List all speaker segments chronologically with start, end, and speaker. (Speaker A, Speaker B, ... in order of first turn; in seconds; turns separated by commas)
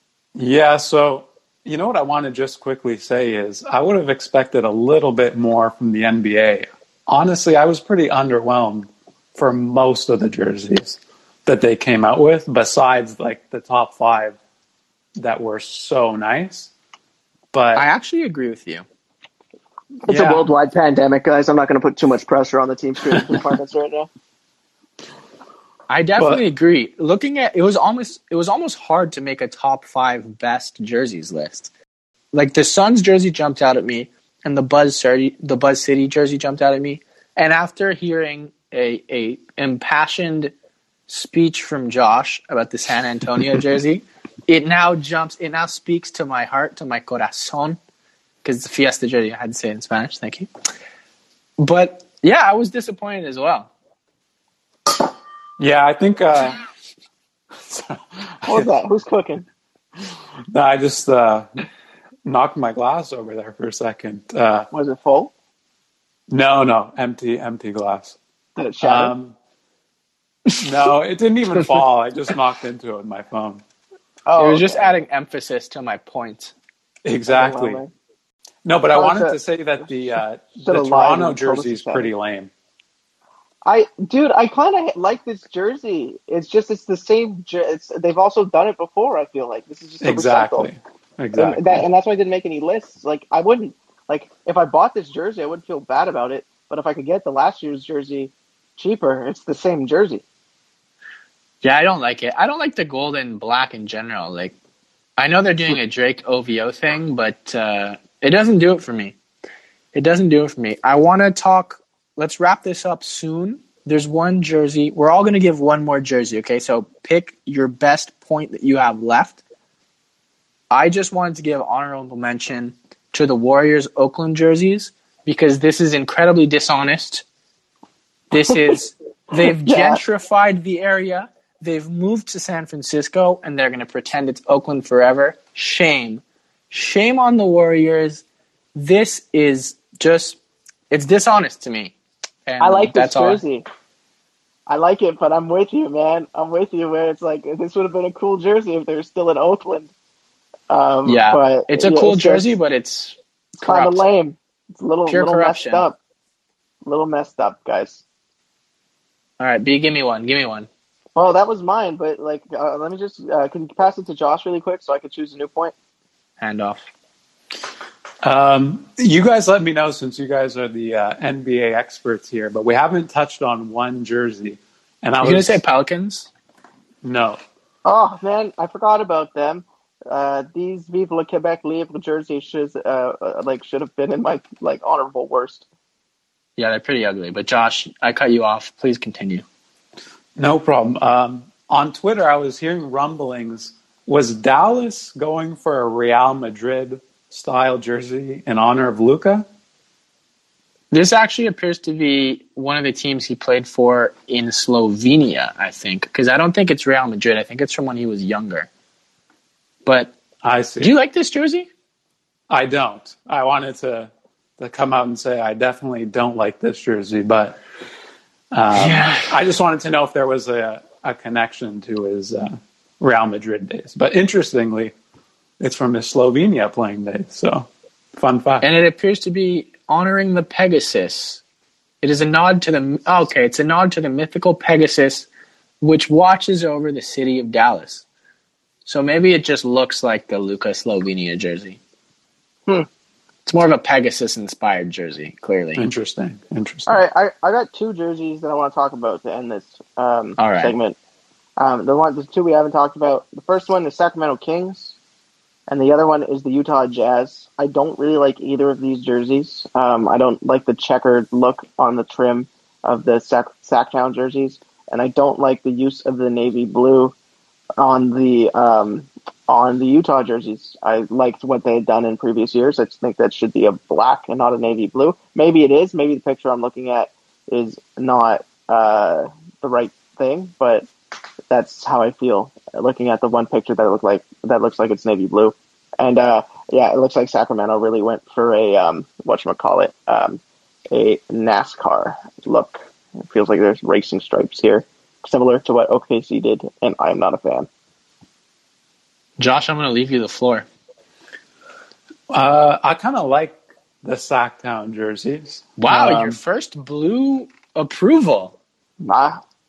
Speaker A: 0.3-14.4, Speaker A: 15.2-16.7, Speaker A: 17.5-17.8, Speaker B: 17.7-18.8, Speaker A: 20.1-20.5, Speaker C: 20.1-24.1, Speaker A: 23.1-23.4, Speaker B: 25.9-31.7, Speaker B: 32.3-40.5, Speaker B: 41.1-47.8, Speaker B: 48.4-50.5, Speaker B: 51.6-53.7, Speaker A: 55.6-56.6, Speaker A: 57.6-58.7, Speaker C: 58.5-59.5, Speaker A: 60.5-61.5, Speaker A: 62.2-64.7, Speaker C: 64.7-65.3, Speaker A: 66.3-68.2, Speaker C: 68.5-69.1, Speaker A: 68.8-69.3, Speaker A: 70.6-73.6, Speaker C: 74.2-75.0, Speaker B: 74.4-76.5, Speaker A: 77.0-77.8, Speaker C: 77.3-77.9, Speaker A: 78.6-82.5, Speaker C: 78.9-79.4, Speaker C: 80.6-82.1, Speaker C: 83.6-90.7, Speaker A: 90.0-91.9, Speaker C: 91.3-100.2, Speaker B: 101.6-104.5, Speaker B: 105.2-109.2, Speaker B: 109.9-119.4, Speaker B: 120.7-127.2, Speaker B: 128.3-138.2, Speaker C: 129.3-130.0, Speaker B: 138.7-140.4, Speaker B: 140.9-143.4, Speaker C: 142.6-143.6, Speaker C: 144.7-149.9, Speaker C: 150.7-152.5, Speaker B: 151.1-154.0, Speaker C: 153.6-155.9, Speaker B: 155.1-155.8, Speaker C: 156.8-158.0, Speaker B: 159.4-160.7, Speaker C: 161.2-165.7, Speaker B: 166.4-166.9, Speaker A: 168.2-175.6, Speaker B: 175.2-176.3, Speaker A: 177.0-177.4, Speaker C: 177.8-185.7, Speaker B: 186.6-189.4, Speaker A: 190.4-199.5, Speaker B: 200.9-208.7, Speaker B: 209.8-210.1, Speaker A: 210.4-210.9, Speaker B: 210.8-211.7, Speaker A: 212.5-217.6, Speaker A: 218.5-224.9, Speaker B: 218.7-219.4, Speaker A: 225.6-228.7, Speaker B: 228.6-231.4, Speaker B: 232.0-235.3, Speaker B: 235.8-238.0, Speaker B: 238.8-241.8, Speaker B: 243.4-245.9, Speaker A: 245.8-247.0, Speaker C: 246.9-251.0, Speaker B: 250.4-250.7, Speaker C: 251.6-254.9, Speaker C: 255.7-267.1, Speaker C: 267.8-280.9, Speaker C: 281.5-297.7, Speaker B: 299.4-300.7, Speaker A: 302.3-306.4, Speaker B: 305.8-308.6, Speaker C: 309.0-309.4